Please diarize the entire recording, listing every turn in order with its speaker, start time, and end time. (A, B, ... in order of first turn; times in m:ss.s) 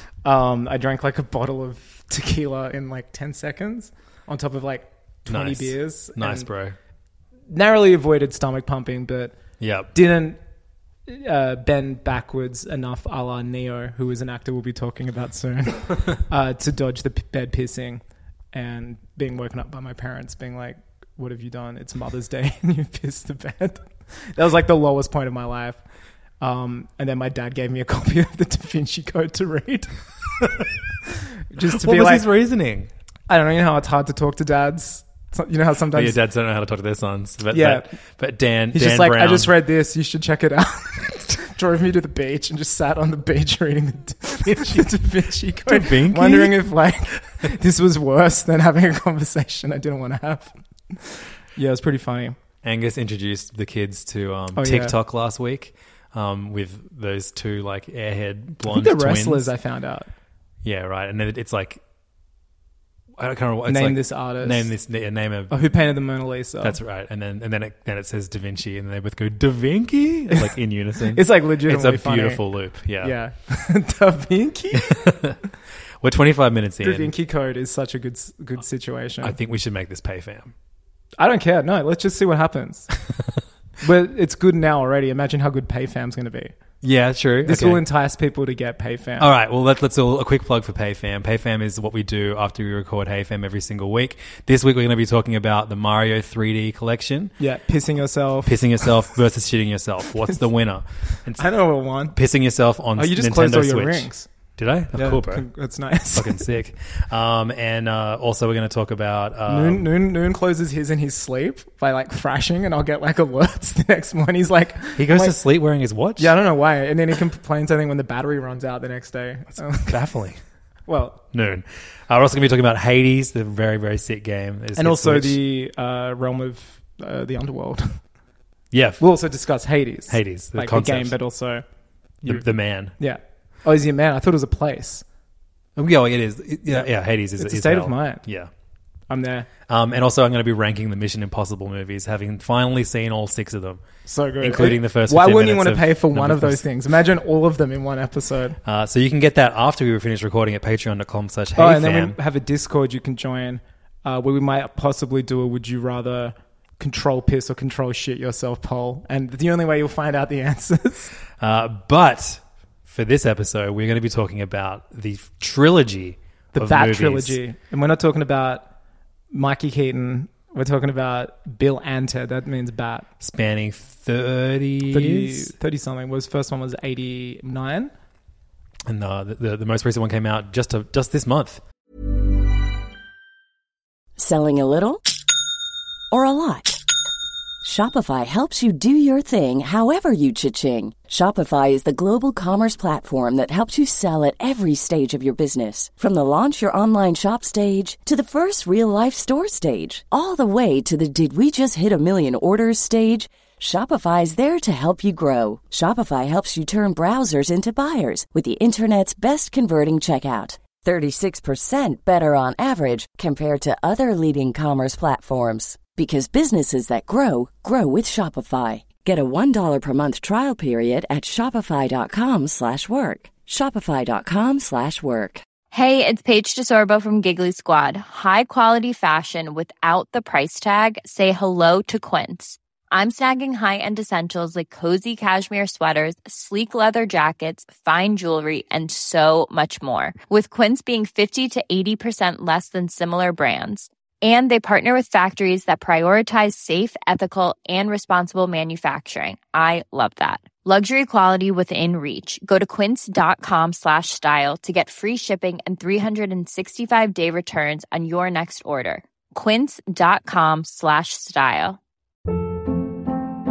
0:00.2-0:06.5 A
0:05.3-0:06.8 B
0:07.5-0:09.3 A
0:09.6-0:09.9 B
0:09.9-0:10.4 A
0:11.1-0:18.0 A
0:18.5-0:25.8 A
0:26.4-0:29.9 A
0:30.4-0:30.7 B
0:31.5-0:32.2 A
0:31.6-0:32.9 B
0:33.3-0:36.2 A
0:35.9-0:39.5 B
0:37.5-0:37.9 A
0:38.7-0:52.4 A
0:44.4-0:44.9 B
0:45.6-0:46.7 B
0:52.6-0:59.5 B
0:54.5-0:54.9 A
0:58.7-1:00.1 A
1:00.6-1:01.8 B
1:03.2-1:05.5 B
1:03.7-1:04.7 A
1:05.5-1:06.8 A
1:06.6-1:13.2 B
1:11.1-1:12.4 A
1:13.0-1:15.1 A
1:14.7-1:15.4 B
1:16.0-1:17.1 B
1:16.8-1:19.4 A
1:19.2-1:20.5 B
1:21.2-1:22.9 A
1:23.8-1:26.5 A
1:26.8-1:27.8 B
1:27.4-1:29.3 A
1:29.2-1:37.3 B
1:37.4-1:38.9 A
1:38.4-1:41.5 B
1:41.4-1:42.2 A
1:42.1-1:45.5 B
1:43.0-1:44.3 A
1:44.9-1:46.4 A
1:46.1-1:49.9 B
1:49.4-1:55.4 A
1:55.0-1:56.3 B
1:56.2-1:59.9 A
1:59.6-2:00.4 B
2:00.9-2:01.2 A
2:01.3-2:05.4 B
2:04.8-2:08.0 A
2:08.7-2:09.0 B
2:09.0-2:11.6 A
2:10.1-2:11.2 B
2:12.2-2:12.9 B
2:13.0-2:15.0 A
2:15.8-2:18.5 B
2:16.7-2:18.2 A
2:19.1-2:19.5 A
2:19.7-2:23.8 B
2:24.1-2:28.6 A
2:24.4-2:26.6 B
2:28.6-2:32.2 B
2:31.6-2:41.1 A
2:41.4-2:47.4 B
2:46.5-2:48.6 A
2:49.3-2:53.0 A
2:53.2-2:55.5 B
2:54.9-2:57.9 A
2:58.8-3:01.6 B
3:04.2-3:05.0 C
3:06.1-3:06.8 C
3:07.6-3:45.4 C
3:45.7-4:21.8 D